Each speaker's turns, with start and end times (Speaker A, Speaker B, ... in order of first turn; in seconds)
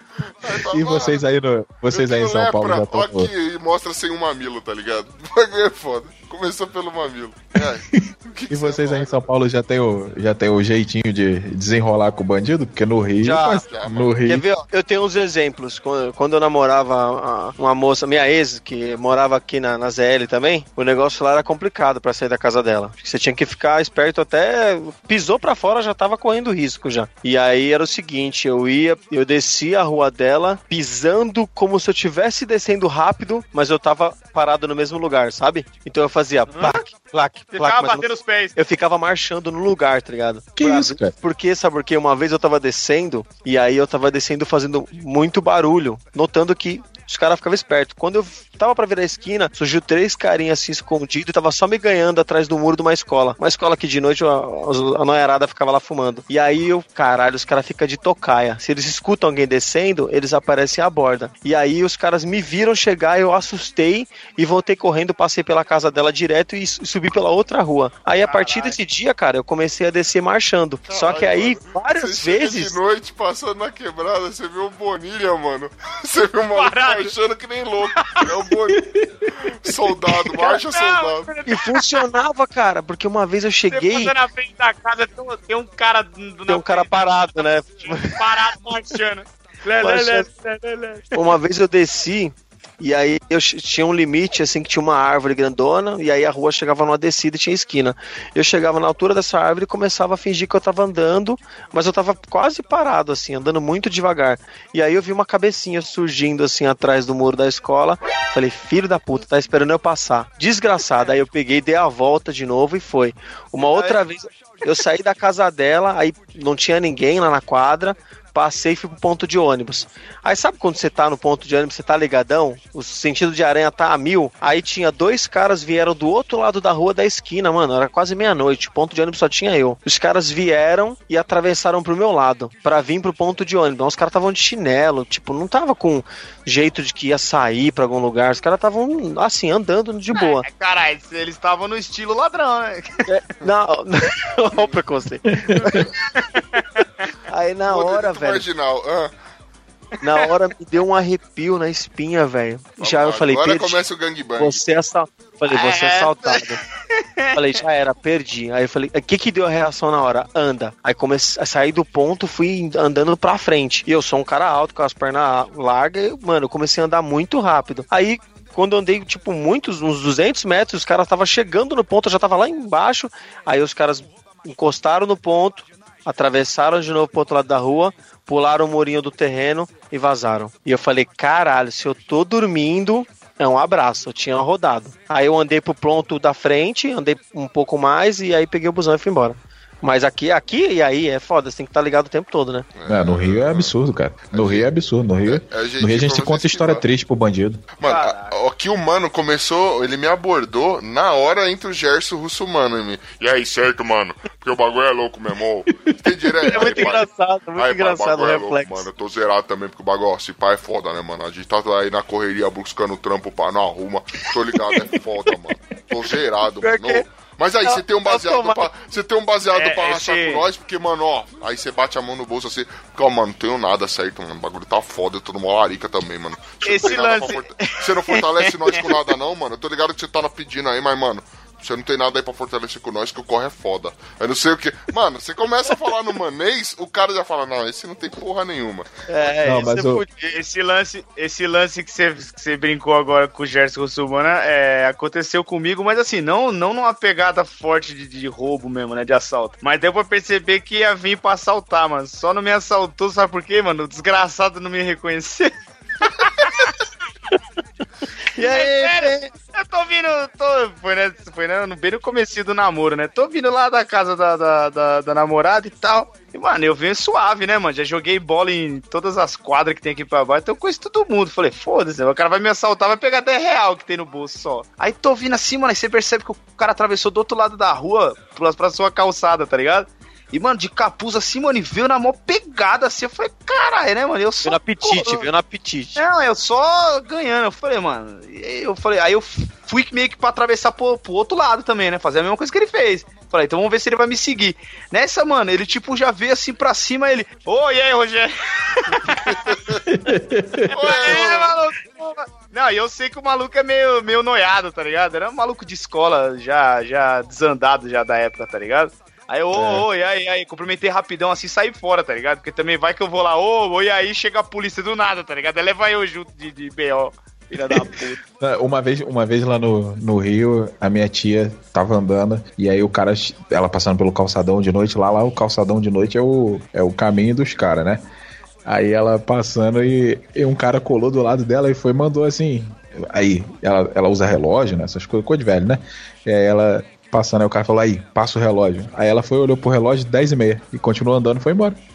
Speaker A: 0.4-1.2, 1.9-9.2, 13.7-14.2, 70.9-81.3, 144.6-144.8, 147.7-149.1, 152.8-154.6, 192.8-193.7, 194.3-194.7, 195.2-196.8, 197.8-207.1, 207.6-238.9, 299.3-299.8, 300.7-301.5
Speaker B: 0.7-3.3, 7.6-14.4, 40.6-41.1, 78.8-79.5, 145.3-145.9, 192.9-197.6, 239.4-240.0, 299.9-300.7, 309.5-309.9, 317.7-328.0, 328.6-341.8
Speaker C: 13.2-13.6, 14.2-72.8, 81.5-84.1, 86.5-88.5, 89.8-90.3, 91.1-140.4, 143.1-145.6, 147.3-148.4, 150.0-153.8, 154.4-156.6, 157.3-192.7, 206.5-208.8, 216.6-217.0, 217.6-218.7, 239.1-240.4, 258.4-259.3, 284.4-286.0
Speaker D: 36.5-36.8, 37.5-38.5, 68.2-68.8, 76.5-77.1, 78.0-78.3, 80.3-82.0, 83.7-91.3, 113.6-114.0, 140.1-143.0, 145.6-147.1, 155.5-156.4, 156.9-157.4, 197.8-198.3, 219.5-220.4, 226.6-229.0, 240.3-256.7, 258.4-285.3, 285.9-299.4, 300.7-318.2